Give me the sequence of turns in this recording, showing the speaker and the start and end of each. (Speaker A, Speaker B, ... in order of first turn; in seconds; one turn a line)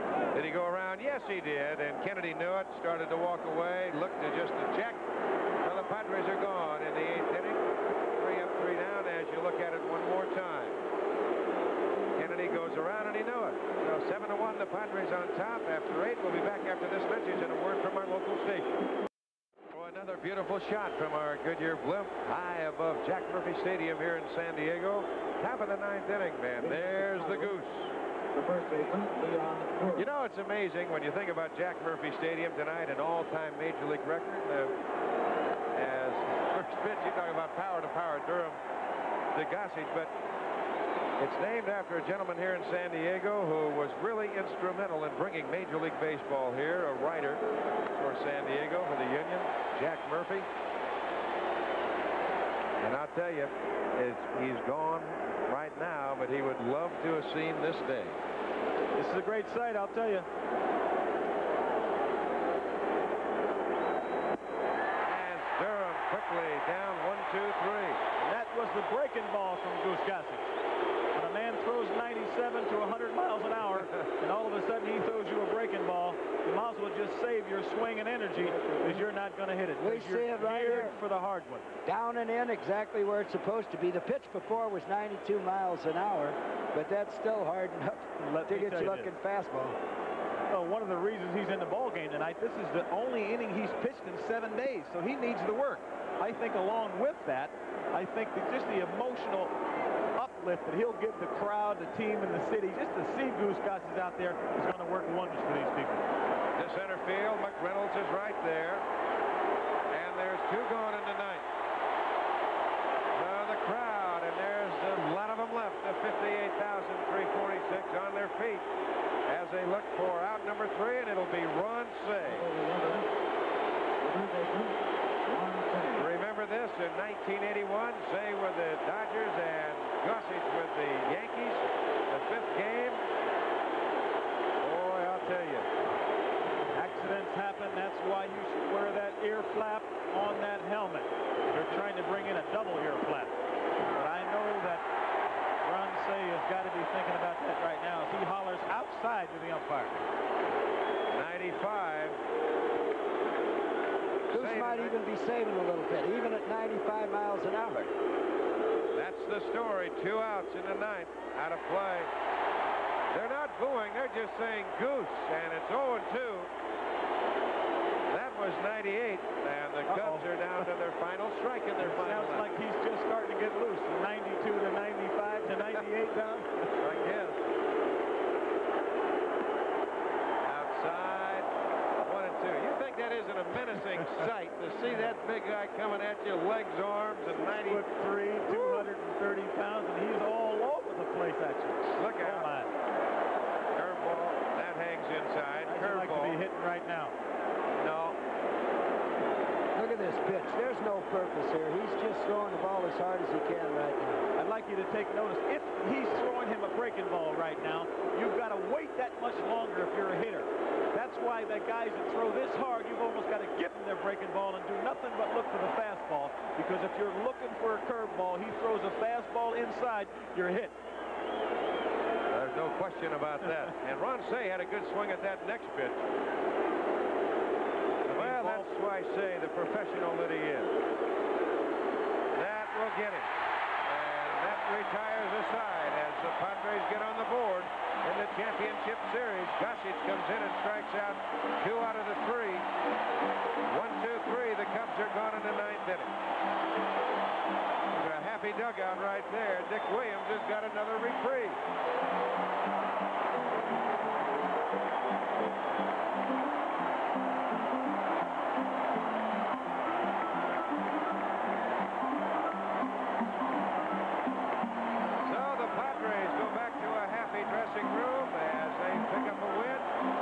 Speaker A: 0.3-5.0
Speaker A: 5.6-10.8
Speaker A: 12.2-18.9
Speaker A: 19.7-28.0
Speaker B: 26.6-27.6
Speaker B: 28.3-30.1
Speaker A: 29.9-34.8
Speaker A: 35.7-38.6
Speaker A: 39.4-40.1
Speaker A: 41.2-50.5
Speaker A: 52.8-58.2
Speaker C: 59.0-60.3
Speaker A: 65.0-68.0
Speaker C: 68.2-70.5
Speaker C: 71.1-81.7
Speaker B: 78.6-78.9
Speaker D: 79.8-81.0
Speaker D: 81.8-89.8
Speaker C: 88.2-89.1
Speaker C: 90.5-99.5
Speaker C: 100.2-106.0
Speaker A: 106.6-108.8
Speaker A: 109.9-111.5
Speaker A: 113.1-118.7
Speaker A: 119.3-122.5
Speaker B: 122.2-123.1
Speaker B: 124.0-126.1
Speaker A: 126.0-133.0
Speaker A: 134.6-135.7
Speaker C: 136.7-143.3
Speaker C: 143.9-144.9
Speaker C: 145.6-150.0
Speaker A: 151.1-152.2
Speaker A: 154.3-154.9
Speaker D: 154.3-157.9
Speaker A: 158.9-162.1
Speaker A: 163.1-166.5
Speaker A: 168.1-172.4
Speaker C: 169.9-170.3
Speaker C: 171.8-176.8
Speaker A: 176.8-177.4
Speaker A: 180.4-181.5
Speaker A: 182.0-187.9
Speaker C: 187.6-192.7
Speaker A: 188.5-188.8
Speaker A: 192.0-192.5
Speaker A: 193.8-196.4
Speaker C: 195.7-197.2
Speaker A: 197.8-198.2
Speaker D: 199.8-204.3
Speaker C: 204.4-220.8
Speaker A: 222.3-226.1
Speaker C: 228.1-228.7
Speaker A: 228.1-230.8
Speaker A: 232.3-233.3
Speaker A: 233.8-242.7
Speaker A: 243.7-246.2
Speaker A: 247.9-251.6
Speaker A: 265.2-269.9